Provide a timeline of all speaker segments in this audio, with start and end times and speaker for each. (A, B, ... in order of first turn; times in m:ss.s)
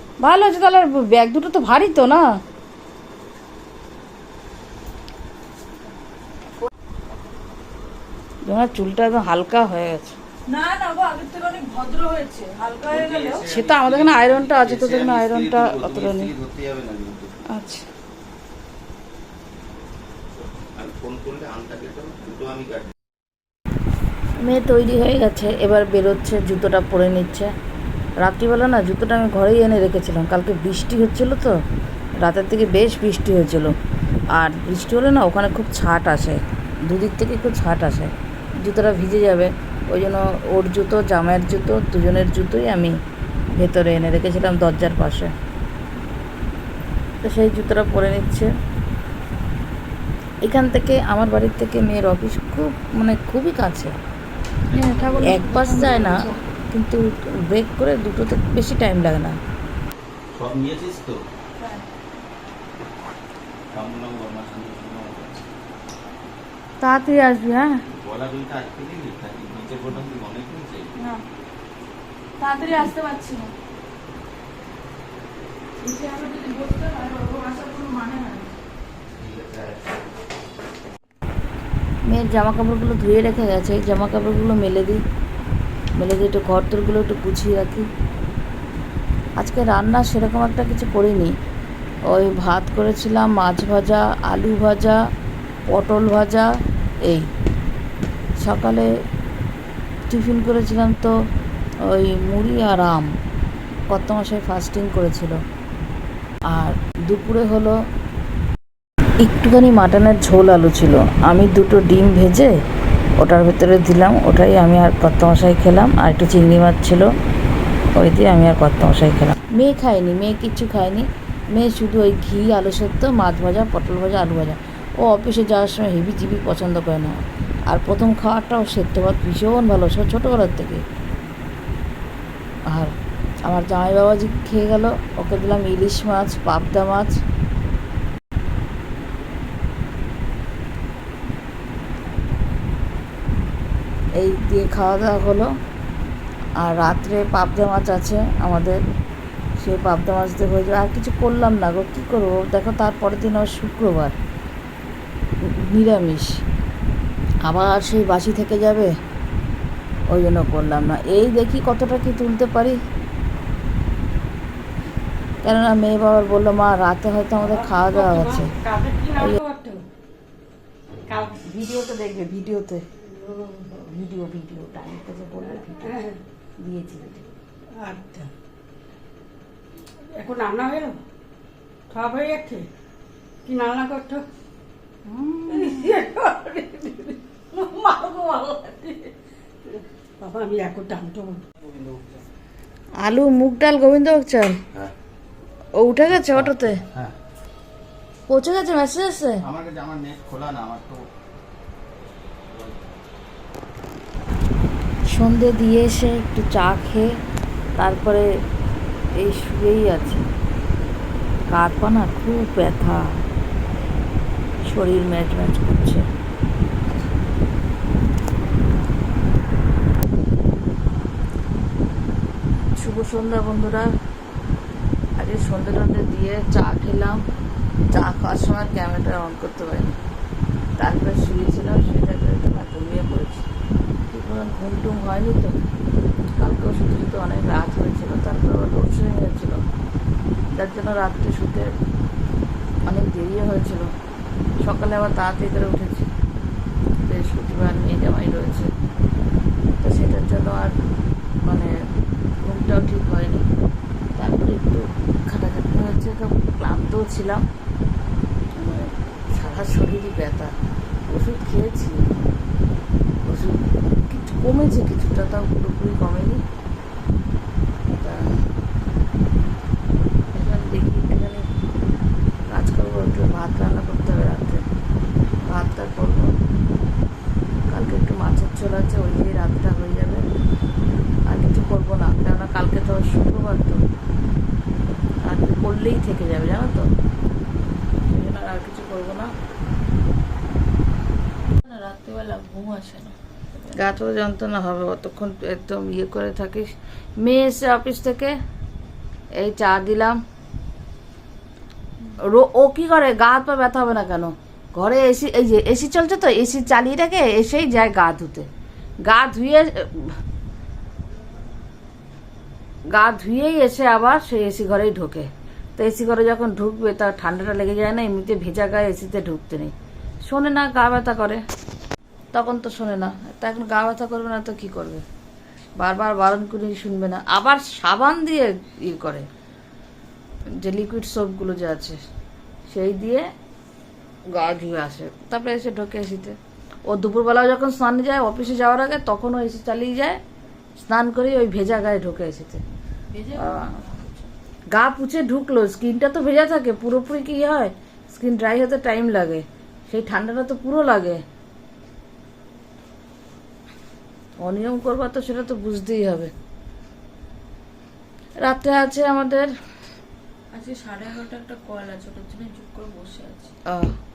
0:00.2-0:02.2 A
0:08.4-0:10.2 A
0:10.5-0:13.4 B
0:12.8-0:17.4 C
0:13.5-0:16.3 A
0:17.5-0:17.8 A
0:20.6-0:22.9 C
0:24.4-0:27.5 A
0:28.2-0:31.6 A
0:32.2-0:33.7 A
0:34.3-0:43.0 A
0:43.5-0:45.3 A
0:47.2-0:48.5 A
0:50.4-0:53.9 A
0:54.7-0:56.2 C
0:54.7-0:56.4 B
0:55.2-0:59.4 A
1:00.3-1:01.2 C
1:03.7-1:05.4 C
1:06.8-1:07.8 A
1:07.9-1:10.9 C
1:12.4-1:13.5 B
1:15.8-1:18.4 B
1:19.2-1:19.9 C
1:22.1-1:25.0 A
1:26.0-1:27.9 A
1:29.4-1:31.3 A
1:32.1-1:35.0 A
1:35.7-1:36.5 A
1:38.4-1:38.9 A
1:40.1-1:41.1 A
1:41.9-1:43.1 A
1:43.9-1:45.4 A
1:46.5-1:47.7 A
1:49.2-1:52.5 A
1:53.2-1:57.1 A
1:57.9-2:10.8 A
2:13.4-2:17.1 A
2:24.2-2:25.5 A
2:26.6-2:28.8 A
2:29.6-2:34.2 A
2:35.4-2:36.4 A
2:37.4-2:38.9 A
2:40.1-2:42.8 A
2:45.4-2:48.5 A
2:47.5-2:49.8 D
2:51.1-2:51.4 D
2:51.4-2:52.8 A
2:53.1-2:53.6 D
2:53.6-2:56.0 A
2:55.8-2:56.2 D
2:56.6-2:57.2 A
2:57.8-2:58.3 D
3:00.1-3:01.0 D
3:01.9-3:02.7 D
3:03.4-3:04.2 D
3:05.0-3:05.9 A
3:05.5-3:09.1 D
3:09.7-3:11.4 D
3:13.0-3:14.6 A
3:15.7-3:16.8 A
3:18.3-3:19.4 A
3:19.4-3:21.0 C
3:22.5-3:22.8 C
3:25.1-3:27.1 A
3:27.8-3:28.3 A
3:29.2-3:30.2 A
3:31.5-3:33.2 A
3:34.6-3:36.0 A
3:42.8-3:43.9 A
3:45.2-3:47.2 A
3:47.9-3:50.0 A
3:50.8-3:53.5 A
3:54.1-3:55.6 A
3:56.4-3:59.6 A
4:00.5-4:01.7 A
4:02.9-4:03.9 A
4:04.6-4:06.1 A
4:07.0-4:08.7 A
4:09.8-4:10.7 A
4:11.4-4:11.7 A
4:12.4-4:13.4 A
4:14.2-4:17.4 A
4:18.5-4:20.5 A
4:21.1-4:22.0 A
4:23.2-4:26.4 A
4:27.9-4:28.4 A
4:30.3-4:31.4 A
4:32.5-4:34.6 A
4:35.4-4:36.3 A
4:37.7-4:40.2 A
4:41.3-4:43.8 A
4:45.2-4:46.9 A
4:48.0-4:49.3 A
4:51.6-4:53.1 B
4:53.7-4:58.3 A
4:59.4-5:00.2 A
5:02.2-5:08.5 A
5:09.0-5:10.2 A
5:12.9-5:19.7 A
5:20.2-5:21.4 A
5:22.3-5:25.0 A
5:25.8-5:29.2 A
5:30.6-5:32.0 A
5:32.7-5:33.2 A
5:34.3-5:40.2 A
5:40.8-5:42.6 A
5:43.1-5:44.3 B
5:43.3-5:43.8 A
5:44.7-5:51.2 A
5:54.4-5:56.3 A
5:58.4-5:59.5 A
6:00.5-6:03.5 B
6:03.7-6:03.9 A